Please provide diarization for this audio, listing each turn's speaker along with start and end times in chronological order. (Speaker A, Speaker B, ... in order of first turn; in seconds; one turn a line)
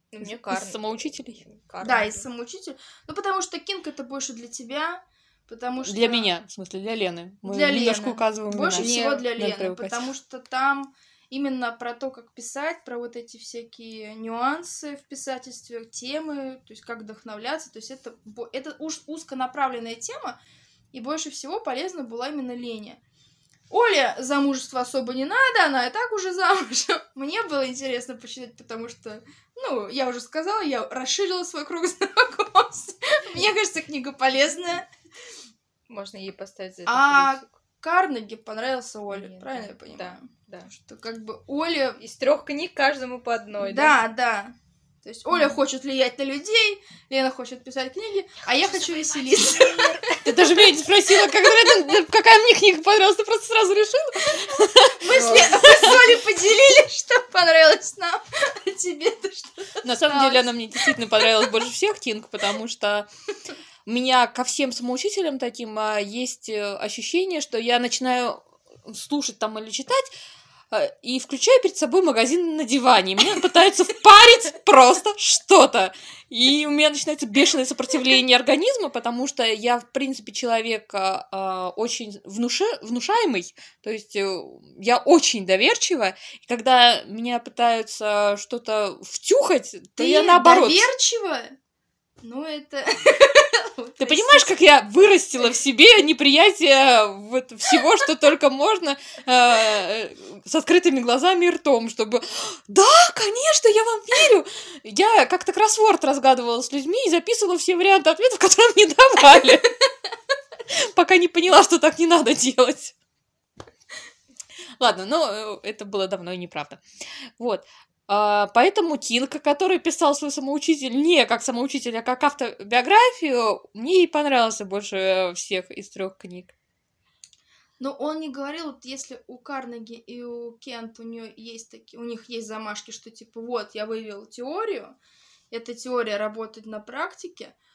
Speaker A: 0.1-2.2
Speaker B: 0.2-1.4
Speaker C: 1.8-6.3
Speaker B: 5.8-10.0
Speaker C: 7.4-20.4
Speaker A: 8.7-9.3
Speaker C: 20.9-23.0
Speaker C: 23.7-34.9
Speaker A: 35.9-37.5
Speaker C: 36.9-42.0
Speaker A: 39.1-40.7
Speaker A: 42.0-44.0
Speaker C: 43.6-50.3
Speaker B: 50.2-56.0
Speaker C: 55.0-61.0
Speaker A: 55.1-55.9
Speaker B: 59.8-63.1
Speaker B: 63.9-70.1
Speaker B: 70.7-90.9
Speaker C: 90.0-91.6
Speaker C: 92.2-94.5
Speaker B: 94.0-109.8
Speaker B: 110.7-112.9
Speaker B: 114.8-116.8
Speaker B: 117.4-126.5
Speaker C: 127.8-134.9
Speaker C: 135.5-137.5